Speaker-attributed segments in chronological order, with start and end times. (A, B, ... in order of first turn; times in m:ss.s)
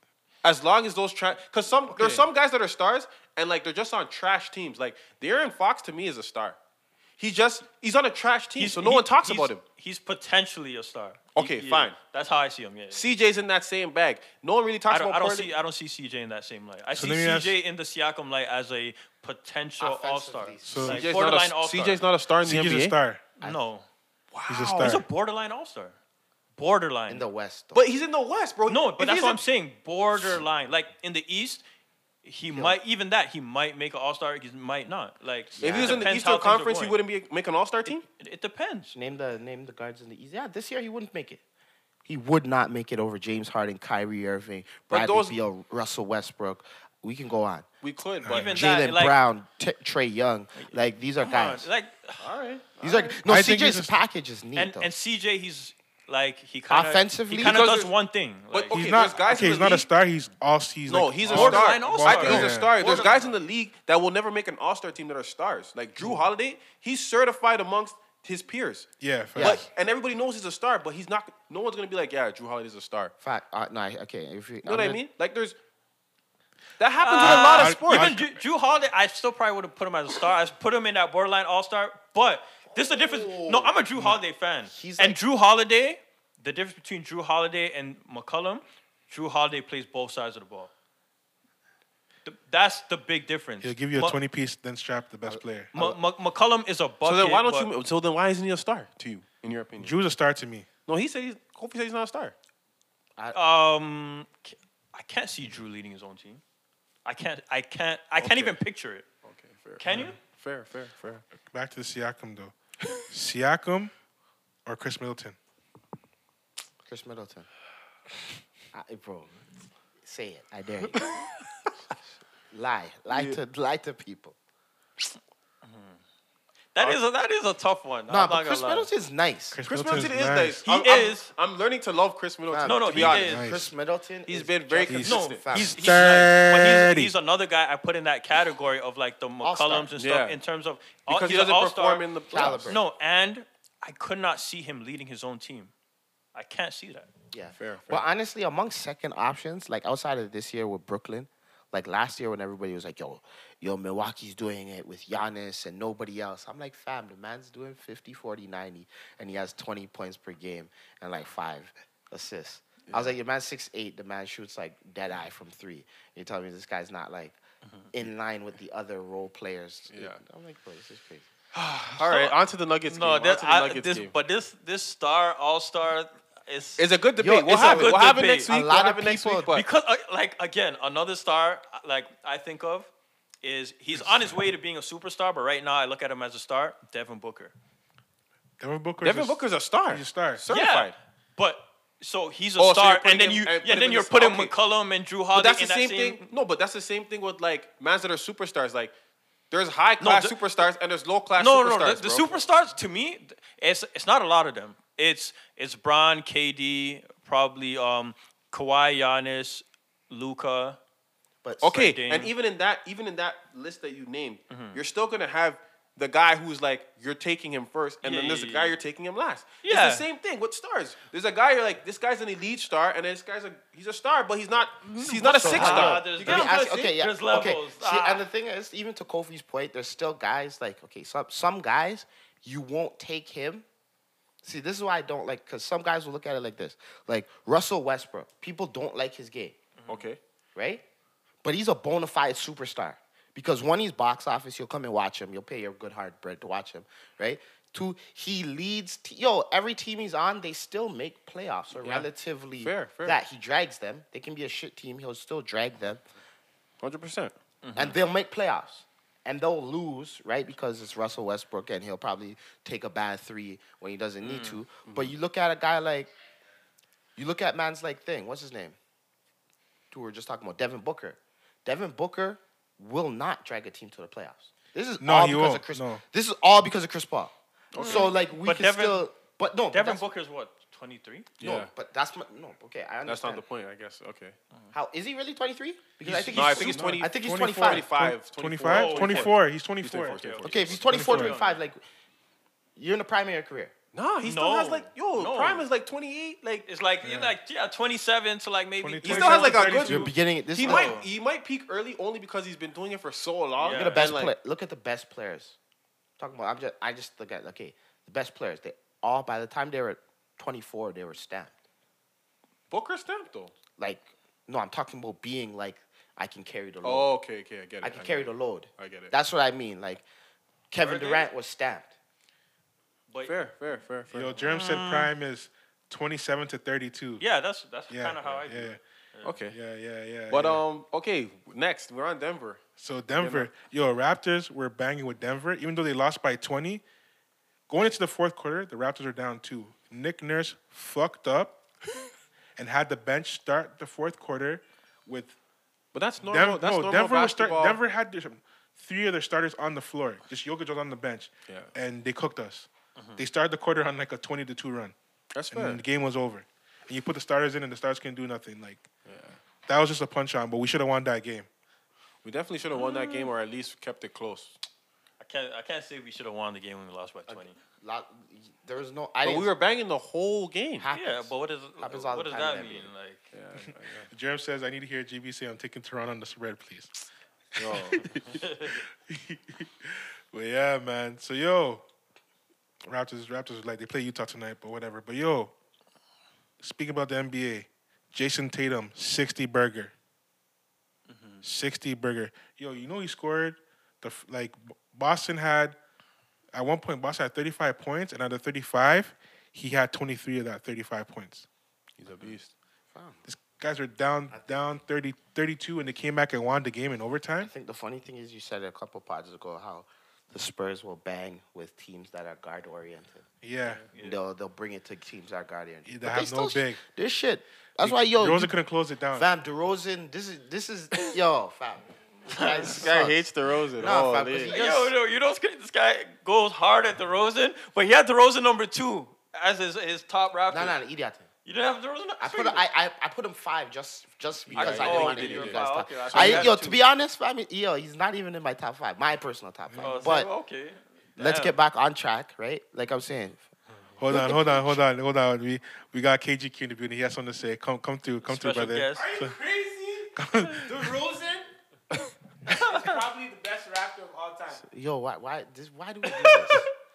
0:00.4-0:06.6 A
0:01.9-0:02.3 B
0:07.2-0:09.6 A
0:08.6-0:13.0 C
0:11.4-0:12.0 A
0:12.9-0:15.5 A
0:14.9-0:22.0 C
0:16.9-0:17.6 D
0:19.8-0:21.2 B
0:20.6-0:21.0 D
0:20.8-0:23.0 A
0:22.4-0:23.2 D
0:23.4-0:23.9 C
0:24.3-0:25.0 A
0:24.5-0:25.0 D
0:24.8-0:26.0 C
0:26.6-0:27.2 C
0:27.1-0:27.8 B
0:27.7-0:29.4 A
0:28.7-0:31.6 C
0:32.2-0:37.0 C
0:32.5-0:32.8 B
0:35.5-0:36.1 B
0:35.6-0:38.0 A
0:37.9-0:39.0 C
0:38.9-0:41.4 B
0:42.0-0:47.6 B
0:44.9-0:45.4 A
0:47.8-0:48.7 A
0:48.3-0:49.2 C
0:48.3-0:51.7 B
0:50.5-0:52.3 C
0:52.2-0:53.2 A
0:52.8-0:54.9 B
0:53.2-0:54.0 D
0:54.6-0:59.3 C
0:56.7-0:57.7 B
0:57.3-0:57.9 A
0:58.5-0:59.9 A
0:58.7-1:02.8 D
1:00.9-1:13.1 A
1:01.3-1:03.3 C
1:09.0-1:09.6 D
1:13.2-1:15.0 B
1:14.6-1:15.6 A
1:16.8-1:18.2 A
1:17.0-1:30.7 C
1:17.2-1:18.3 D
1:22.7-1:23.8 B
1:24.6-1:25.2 B
1:32.2-1:34.2 C
1:33.6-1:35.7 D
1:35.2-1:36.0 B
1:35.7-1:37.7 C
1:37.0-1:40.0 A
1:39.8-1:40.7 D
1:40.9-1:42.4 A
1:43.3-1:46.4 C
1:47.0-1:49.0 C
1:48.2-1:48.6 A
1:49.2-1:51.2 A
1:49.8-1:50.2 C
1:51.4-1:53.9 D
1:54.6-1:55.4 D
1:56.8-1:57.5 B
1:58.7-1:59.3 B
2:00.0-2:01.1 B
2:02.5-2:04.4 B
2:03.1-2:03.4 A
2:05.6-2:06.0 C
2:06.8-2:08.9 C
2:08.1-2:09.6 B
2:09.5-2:10.6 D
2:09.6-2:13.4 A
2:10.6-2:11.3 C
2:12.5-2:15.8 B
2:12.6-2:13.5 C
2:13.2-2:13.7 D
2:14.2-2:15.4 A
2:14.9-2:17.1 D
2:15.0-2:22.1 C
2:19.4-2:19.9 B
2:20.0-2:20.4 A
2:21.1-2:22.8 A
2:22.3-2:22.8 B
2:22.6-2:25.7 C
2:26.4-2:27.1 C
2:27.3-2:47.4 B
2:27.6-2:28.0 A
2:42.9-2:43.1 A
2:47.9-2:51.3 B
2:49.9-2:50.2 A
2:51.5-2:54.1 A
2:51.9-2:52.4 C
2:52.9-2:56.8 C
2:56.8-2:59.6 A
2:57.2-2:59.5 B
2:57.5-2:58.5 C
2:59.5-3:02.9 C
3:03.4-3:07.5 C
3:04.0-3:04.4 D
3:08.6-3:10.4 D
3:09.0-3:11.0 A
3:10.5-3:16.2 C
3:12.6-3:14.5 A
3:15.3-3:18.9 A
3:19.5-3:22.4 A
3:20.0-3:20.4 C
3:21.4-3:30.8 C
3:31.4-3:31.8 B
3:31.6-3:46.9 A
3:31.6-3:32.3 C
3:34.5-3:34.8 C
3:38.0-3:38.8 C
3:39.6-3:40.0 C
3:44.9-3:48.2 C
3:45.2-3:53.6 B
3:54.4-3:59.6 B
3:59.8-4:00.1 C
3:59.9-4:00.2 A
4:00.5-4:00.8 B
4:01.4-4:16.0 B
4:11.7-4:12.1 A
4:12.6-4:13.2 A
4:16.8-4:17.3 A
4:17.6-4:18.0 C
4:17.8-4:26.1 B
4:24.2-4:24.6 C
4:24.8-4:25.1 A
4:27.2-4:28.8 B
4:29.9-4:40.0 B
4:35.0-4:36.0 D
4:37.7-4:38.1 A
4:37.8-4:39.0 C
4:39.7-4:41.3 C
4:41.4-4:41.7 A
4:41.4-4:43.4 B
4:43.0-4:44.4 A
4:44.7-4:47.9 B
4:46.0-4:50.2 D
4:46.1-4:50.9 A
4:48.6-4:49.4 C
4:50.0-4:51.6 C
4:50.4-4:51.8 B
4:50.8-4:51.4 D
4:52.8-4:53.7 B
4:53.9-4:56.6 A
4:54.2-4:55.7 C
4:56.6-4:59.9 C
4:57.0-4:57.4 D
4:58.8-5:00.1 D
4:59.0-5:04.4 A
4:59.8-5:00.9 B
5:00.6-5:01.0 C
5:03.6-5:04.0 C
5:03.7-5:05.6 B
5:06.2-5:11.5 B
5:12.7-5:13.5 A
5:13.8-5:17.1 B
5:16.8-5:19.1 A
5:17.8-5:20.0 B
5:20.7-5:21.9 B
5:20.8-5:21.3 C
5:23.1-5:23.4 C
5:23.2-5:24.5 A
5:24.1-5:27.2 D
5:24.5-5:25.1 C
5:27.2-5:29.4 C
5:27.9-5:28.8 D
5:29.2-5:29.6 A
5:29.5-5:30.6 D
5:30.3-5:32.6 A
5:32.8-5:36.8 D
5:33.2-5:33.5 A
5:37.7-5:41.6 D
5:42.6-5:45.4 D
5:45.9-5:47.8 A
5:46.2-5:55.0 D
5:51.5-5:51.7 A
5:53.0-5:53.2 C
5:55.3-5:55.8 A
5:55.5-5:58.9 D
5:59.0-5:59.4 A
5:59.7-6:01.5 D
6:02.2-6:04.6 A
6:02.7-6:03.3 C
6:05.2-6:07.6 C
6:07.3-6:09.5 B
6:09.2-6:10.9 A
6:10.8-6:12.9 B
6:10.9-6:13.3 C
6:13.3-6:14.1 A
6:14.1-6:17.0 D
6:17.6-6:18.1 A
6:17.6-6:21.8 D
6:18.2-6:18.8 C
6:22.9-6:25.5 D
6:26.6-6:29.9 D
6:31.1-6:31.4 C
6:31.4-6:35.8 D
6:36.5-6:41.5 D
6:42.0-6:42.5 A
6:42.9-6:43.2 B
6:43.3-6:47.5 D
6:47.4-6:53.2 B
6:53.4-6:53.8 D
6:53.7-6:54.2 C
6:54.0-6:58.5 B
6:55.9-6:56.8 D
6:57.8-6:59.3 D
6:59.1-7:03.2 B
7:02.4-7:02.7 C
7:02.5-7:04.6 A
7:03.8-7:04.9 B
7:04.5-7:10.8 C
7:10.5-7:11.3 B
7:11.4-7:12.6 C
7:12.2-7:20.3 B
7:14.5-7:16.6 A
7:14.5-7:16.8 C
7:19.8-7:21.6 C
7:21.2-7:23.4 B
7:24.0-7:29.3 D
7:24.1-7:24.8 B
7:28.2-7:29.1 C
7:28.9-7:31.5 E
7:30.2-7:31.0 D
7:32.5-7:32.9 C
7:32.5-7:34.6 E
7:34.6-7:36.6 B
7:36.1-7:36.7 C